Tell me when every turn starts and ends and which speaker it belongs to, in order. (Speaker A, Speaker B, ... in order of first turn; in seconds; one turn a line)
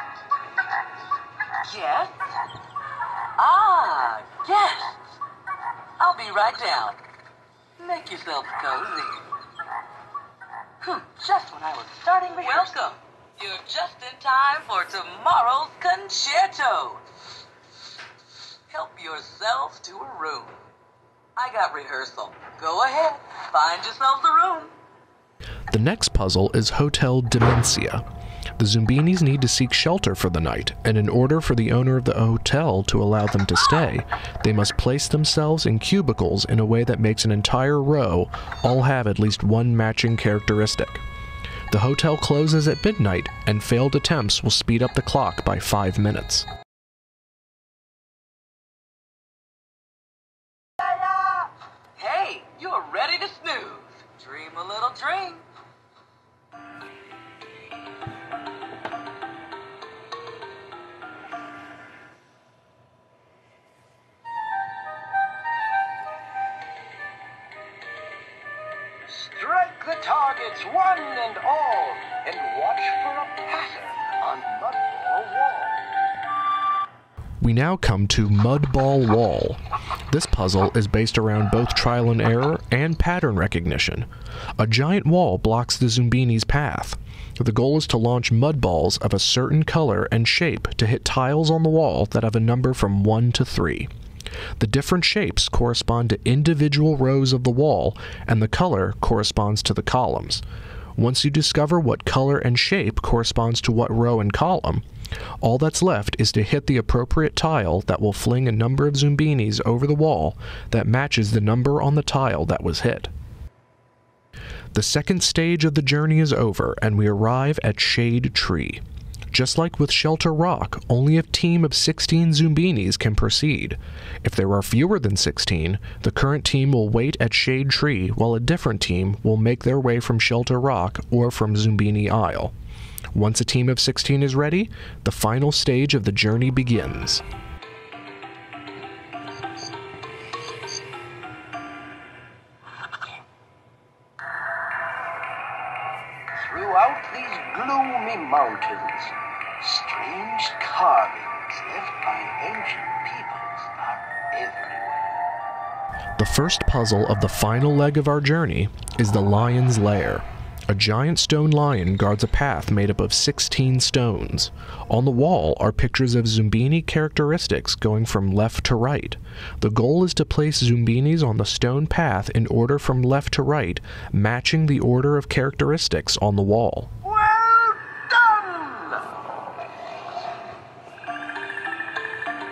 Speaker A: 1.7-2.1
Speaker A: 3.4-5.0
Speaker A: 6.0-7.0
Speaker A: 7.8-9.2
Speaker A: 10.8-17.0
Speaker A: 18.7-20.6
Speaker A: 21.4-24.7
Speaker B: 25.7-28.0
Speaker B: 28.6-41.0
Speaker B: 41.7-46.5
Speaker A: 52.0-55.5
Speaker C: 69.0-75.9
Speaker B: 77.4-84.1
Speaker B: 84.6-93.9
Speaker B: 94.6-100.4
Speaker B: 101.0-104.8
Speaker B: 105.4-113.1
Speaker B: 114.7-132.5
Speaker B: 133.1-137.2
Speaker C: 146.3-155.1
Speaker B: 156.2-176.9
Speaker C: 177.0-179.1